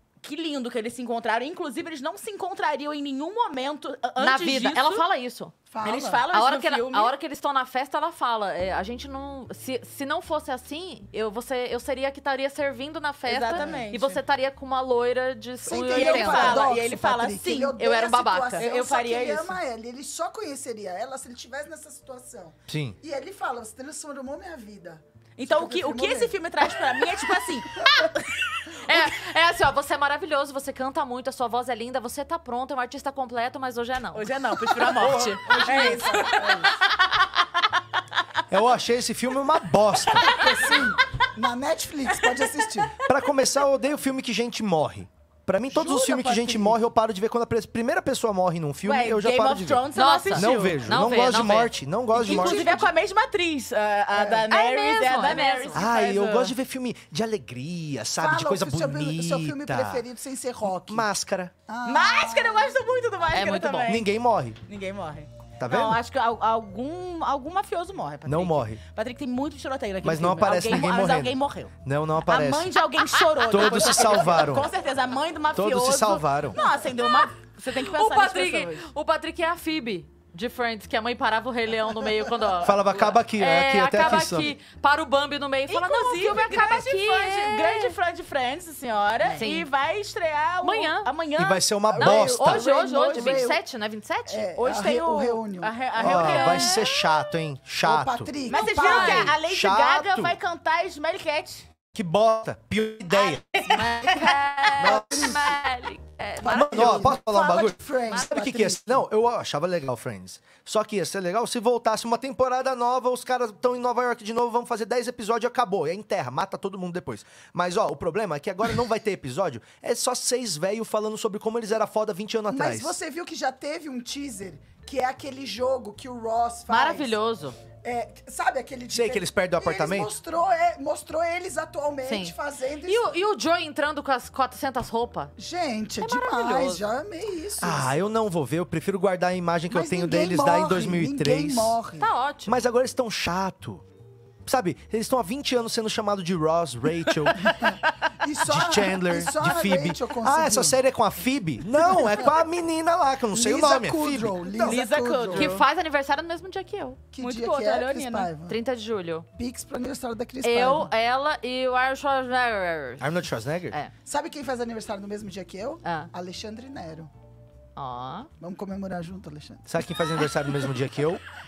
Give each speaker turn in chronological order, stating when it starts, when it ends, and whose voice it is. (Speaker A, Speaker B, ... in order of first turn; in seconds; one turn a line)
Speaker A: 0.2-5.1
Speaker B: 4.2-5.5
Speaker C: 5.7-6.3
Speaker A: 5.8-7.2
Speaker B: 6.3-16.8
Speaker A: 13.3-14.2
Speaker C: 13.6-14.0
Speaker C: 15.6-26.4
Speaker A: 15.8-17.7
Speaker B: 17.6-18.6
Speaker A: 18.6-19.6
Speaker D: 22.7-23.0
Speaker A: 25.4-29.0
Speaker B: 28.7-35.2
Speaker A: 34.1-37.3
Speaker C: 35.0-36.8
Speaker D: 35.1-35.4
Speaker D: 38.5-40.4
Speaker A: 40.1-40.8
Speaker C: 40.1-42.9
Speaker A: 42.1-43.1
Speaker D: 43.0-52.7
Speaker C: 45.7-46.8
Speaker A: 48.8-50.8
Speaker B: 49.9-51.8
Speaker A: 52.1-56.5
Speaker C: 52.2-52.9
Speaker C: 54.1-54.5
Speaker B: 54.5-55.8
Speaker D: 55.7-60.0
Speaker C: 58.2-61.1
Speaker D: 60.9-61.5
Speaker C: 61.7-62.8
Speaker A: 61.9-64.1
Speaker B: 63.3-64.0
Speaker D: 63.9-64.6
Speaker A: 64.7-71.7
Speaker D: 65.6-66.0
Speaker D: 68.3-68.8
Speaker D: 70.0-72.7
Speaker A: 72.3-78.9
Speaker B: 73.3-74.0
Speaker D: 73.5-74.7
Speaker D: 75.5-76.6
Speaker B: 77.0-88.0
Speaker D: 82.6-84.5
Speaker A: 82.8-83.2
Speaker A: 85.7-92.3
Speaker B: 89.3-89.7
Speaker B: 90.6-91.1
Speaker D: 91.4-92.7
Speaker B: 92.0-94.5
Speaker C: 92.2-93.6
Speaker A: 93.1-93.4
Speaker C: 94.3-96.6
Speaker A: 94.5-96.9
Speaker D: 96.0-98.3
Speaker C: 97.8-99.3
Speaker A: 98.5-101.7
Speaker B: 98.5-99.3
Speaker D: 99.0-100.4
Speaker D: 101.9-103.4
Speaker A: 103.2-104.4
Speaker C: 103.8-105.6
Speaker B: 104.0-107.2
Speaker D: 104.8-105.5
Speaker C: 106.4-109.0
Speaker D: 106.4-123.0
Speaker C: 122.5-127.2
Speaker B: 126.7-127.6
Speaker C: 127.8-133.1
Speaker D: 128.9-130.1
Speaker B: 132.1-132.3
Speaker B: 132.9-135.3
Speaker C: 135.4-137.9
Speaker B: 136.0-136.8
Speaker D: 137.6-141.8
Speaker C: 139.7-142.1
Speaker B: 142.0-142.6
Speaker D: 142.5-143.8
Speaker D: 144.4-147.8
Speaker C: 147.4-150.8
Speaker D: 148.5-154.4
Speaker C: 151.8-152.3
Speaker C: 153.3-155.6
Speaker A: 154.6-155.7
Speaker B: 155.3-157.0
Speaker C: 157.1-158.6
Speaker A: 157.2-158.3
Speaker B: 158.5-159.3
Speaker C: 159.4-160.9
Speaker B: 160.4-163.2
Speaker D: 163.0-163.8
Speaker C: 164.1-167.1
Speaker B: 165.8-166.1
Speaker B: 167.8-168.3
Speaker C: 168.4-169.7
Speaker D: 169.7-171.2